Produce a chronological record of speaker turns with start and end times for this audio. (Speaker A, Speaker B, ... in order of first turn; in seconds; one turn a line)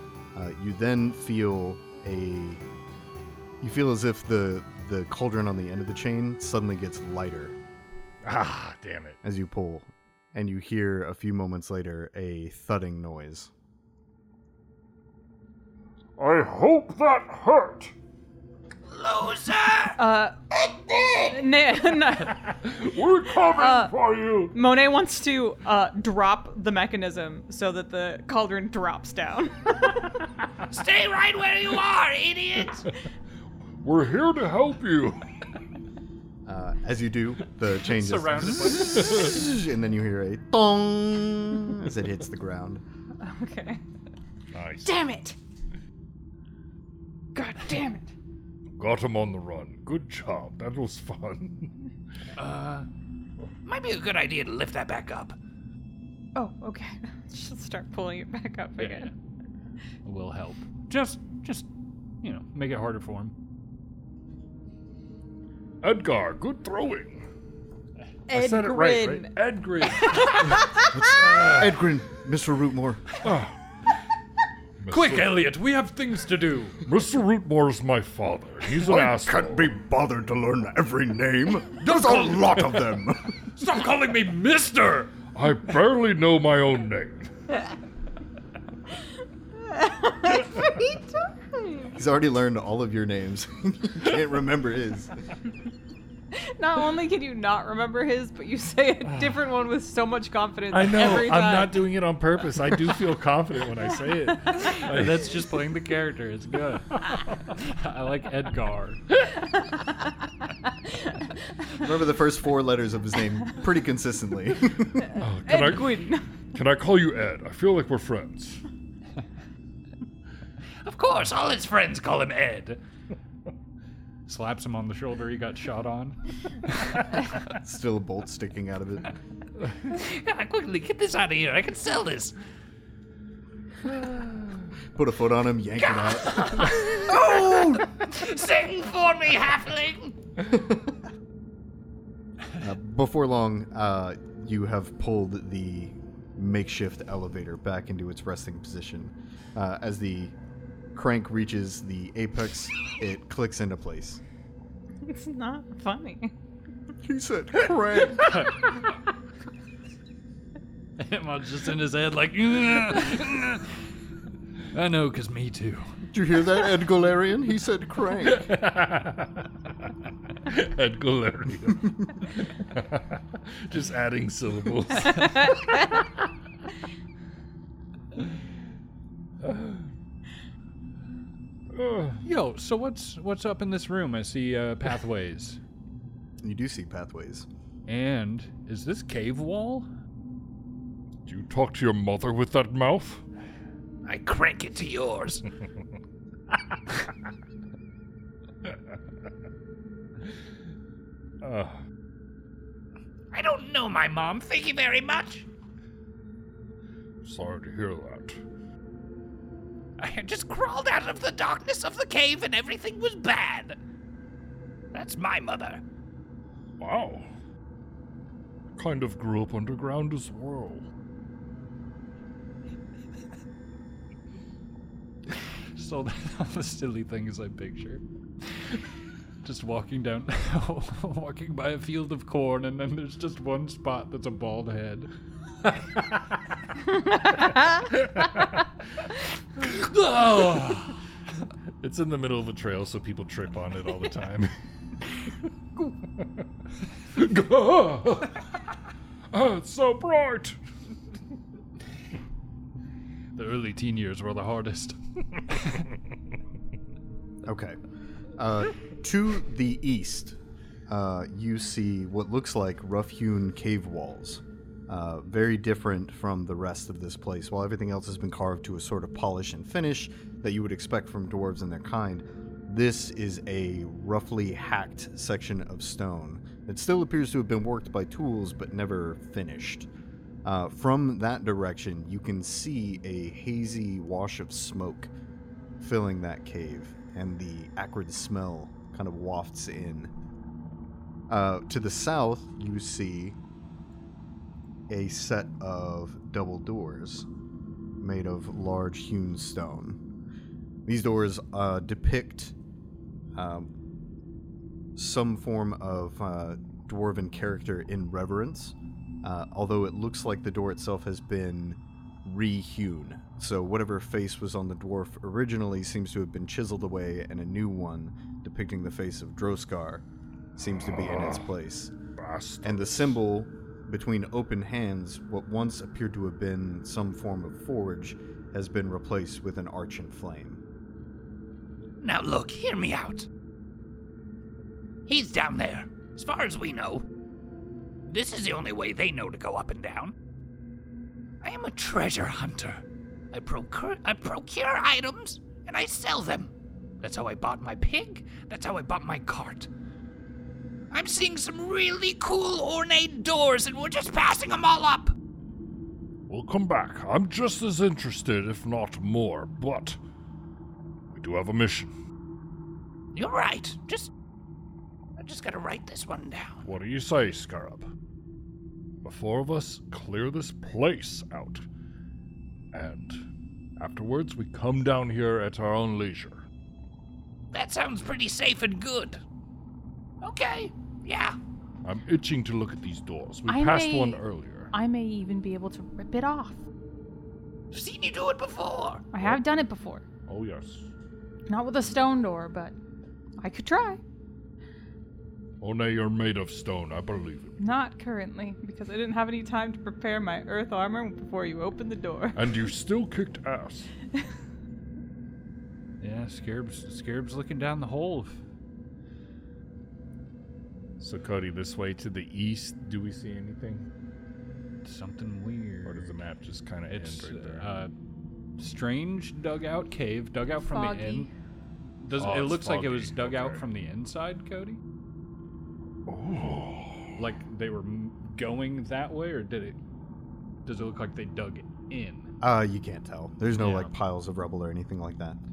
Speaker A: 0.3-2.6
Speaker A: 3.6-7.6
Speaker B: 8.2-9.2
Speaker A: 9.2-13.5
Speaker B: 16.2-17.9
Speaker C: 18.9-20.0
Speaker D: 20.0-20.4
Speaker B: 20.7-21.4
Speaker D: 21.2-22.6
Speaker B: 22.4-24.6
Speaker D: 23.3-23.9
Speaker D: 24.5-30.2
Speaker C: 30.7-32.9
Speaker B: 33.8-35.3
Speaker A: 36.4-42.8
Speaker E: 37.9-39.3
Speaker D: 43.2-43.8
Speaker B: 44.5-45.0
Speaker D: 44.8-45.4
Speaker D: 47.3-48.1
Speaker B: 48.8-51.7
Speaker E: 52.4-52.8
Speaker C: 52.5-52.8
Speaker C: 53.6-55.4
Speaker D: 56.3-59.1
Speaker E: 58.8-59.1
Speaker E: 60.0-61.7
Speaker E: 62.2-63.3
Speaker B: 65.8-67.2
Speaker D: 68.3-69.3
Speaker B: 68.3-70.6
Speaker D: 69.9-71.0
Speaker A: 70.9-73.0
Speaker B: 71.2-71.7
Speaker B: 73.2-73.6
Speaker B: 74.8-75.5
Speaker E: 74.9-76.8
Speaker B: 76.8-79.7
Speaker A: 78.8-83.4
Speaker E: 81.9-82.6
Speaker E: 83.5-85.2
Speaker B: 85.3-87.3
Speaker D: 89.5-91.9
Speaker A: 91.9-95.1
Speaker D: 96.3-101.9
Speaker B: 100.7-105.2
Speaker E: 104.7-109.0
Speaker A: 111.8-115.1
Speaker D: 115.1-116.2
Speaker B: 115.1-118.6
Speaker C: 120.8-122.8
Speaker E: 124.2-127.2
Speaker A: 127.5-129.1
Speaker C: 129.9-132.3
Speaker A: 134.9-137.9
Speaker C: 135.9-140.2
Speaker A: 140.4-140.9
Speaker A: 142.6-150.3
Speaker A: 150.9-154.2
Speaker D: 155.0-156.3
Speaker A: 157.0-158.5
Speaker E: 158.2-158.7
Speaker E: 161.0-163.7
Speaker E: 164.7-165.9
Speaker A: 166.1-168.5
Speaker B: 168.2-169.5
Speaker B: 170.4-175.6
Speaker D: 175.2-175.9
Speaker B: 179.4-179.9
Speaker B: 181.7-182.2
Speaker E: 182.2-185.6
Speaker A: 186.4-187.5
Speaker E: 187.9-189.9
Speaker B: 191.2-193.2
Speaker C: 194.0-195.4
Speaker B: 201.4-201.8
Speaker C: 203.3-205.5
Speaker B: 207.2-208.4
Speaker C: 210.0-213.8
Speaker C: 214.9-215.8
Speaker B: 216.8-217.3
Speaker B: 218.8-220.9
Speaker E: 225.8-228.0
Speaker E: 229.4-235.1
Speaker D: 236.9-237.9
Speaker B: 237.9-238.6
Speaker B: 239.6-240.9
Speaker B: 241.8-244.5
Speaker B: 247.1-248.4
Speaker B: 249.3-250.6
Speaker E: 253.3-255.0
Speaker A: 257.4-257.8
Speaker A: 258.4-260.4
Speaker A: 260.9-279.9
Speaker A: 280.4-285.1
Speaker A: 285.8-290.1
Speaker A: 291.3-293.4
Speaker A: 294.9-297.3
Speaker A: 298.0-300.0
Speaker A: 300.9-302.6
Speaker A: 303.4-303.7
Speaker A: 304.9-320.0
Speaker A: 320.6-321.9
Speaker B: 320.6-321.5
Speaker B: 322.1-323.2
Speaker A: 322.6-330.6
Speaker C: 332.0-333.3
Speaker C: 335.1-337.1
Speaker C: 338.1-340.1
Speaker C: 341.4-349.7
Speaker C: 350.9-355.1
Speaker B: 356.3-360.0
Speaker B: 361.1-361.9
Speaker C: 363.1-364.1
Speaker C: 365.2-366.6
Speaker B: 366.6-367.9
Speaker B: 369.0-371.6
Speaker B: 372.7-373.2
Speaker B: 373.8-376.4
Speaker C: 377.5-379.2
Speaker C: 380.2-381.4
Speaker B: 381.8-384.7
Speaker D: 383.5-386.6
Speaker C: 387.7-389.1
Speaker D: 389.1-390.0
Speaker B: 390.3-390.9
Speaker D: 391.5-392.7
Speaker D: 393.4-394.0
Speaker B: 395.6-397.6
Speaker D: 397.6-402.6
Speaker B: 402.3-403.9
Speaker E: 406.0-408.4
Speaker B: 411.0-413.9
Speaker E: 414.8-416.2
Speaker B: 415.8-417.7
Speaker E: 416.9-417.9
Speaker E: 418.6-421.3
Speaker D: 420.7-421.3
Speaker E: 422.0-424.8
Speaker B: 422.1-423.7
Speaker B: 426.1-427.1
Speaker E: 427.1-429.8
Speaker E: 430.6-432.3
Speaker A: 432.4-435.4
Speaker E: 433.5-433.9